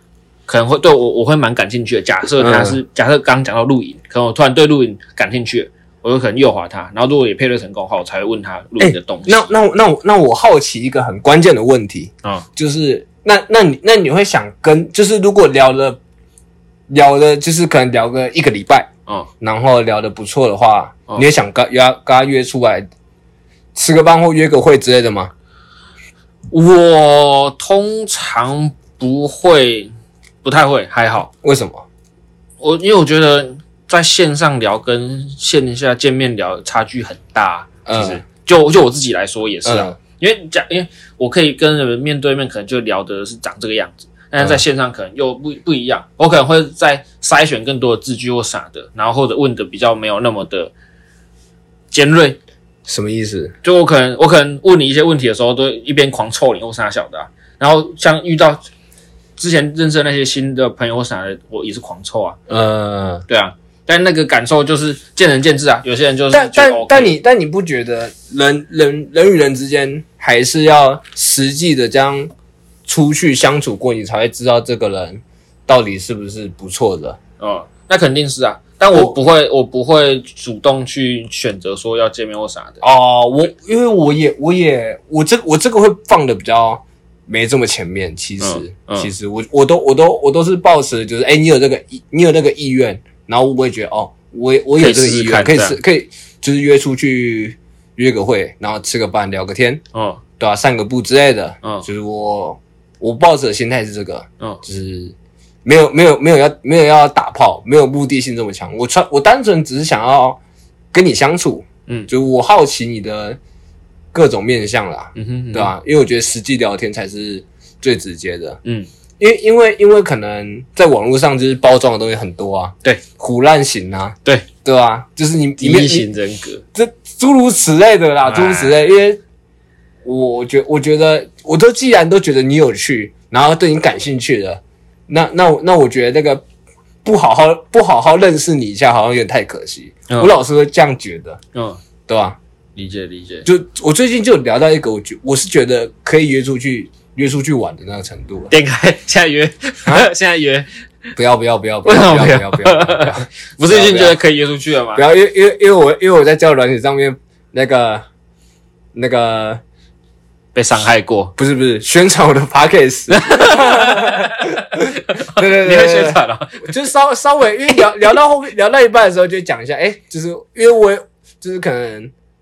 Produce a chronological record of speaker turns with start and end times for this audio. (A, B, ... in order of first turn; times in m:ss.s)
0:00.5-0:09.5 A
0:02.4-0:02.8 B
0:08.8-0:16.0 B
0:16.9-0:18.9 B
0:19.4-0:22.9 B
0:23.7-0:25.3 B
0:26.5-0:29.9 A
0:30.4-0:31.3 A
0:31.4-0:31.8 B
0:32.6-0:50.7 A
0:37.9-0:38.2 B
0:39.6-0:40.0 B
0:51.9-0:52.4 A
0:52.9-0:53.5 B
0:53.6-0:58.6 A
0:59.4-1:02.4 A
1:02.5-1:03.2 B
1:03.3-1:07.1 A
1:06.3-1:12.3 B
1:12.9-1:17.2 B
1:17.4-1:22.8 A
1:22.8-1:39.8 B
1:28.4-1:29.1 A
1:34.8-1:35.8 A
1:39.9-1:40.2 A
1:40.4-1:45.1 B
1:45.6-1:50.4 B
1:50.9-1:53.4 B
1:54.1-1:58.6 B
1:55.2-1:55.7 A
1:59.2-2:06.1 B
2:05.6-2:06.6 A
2:06.7-2:09.2 B
2:08.2-2:08.8 A
2:10.0-2:16.4 B
2:17.0-2:21.4 B
2:21.6-2:21.8 A
2:22.1-2:22.4 B
2:22.8-2:23.5 A
2:23.4-2:28.5 B
2:28.5-2:30.7 A
2:31.2-2:34.2 B
2:31.8-2:35.0 A
2:35.0-2:38.0 B
2:38.9-2:39.6 B
2:40.6-2:41.3 A
2:41.4-2:52.1 B
2:43.1-2:46.7 A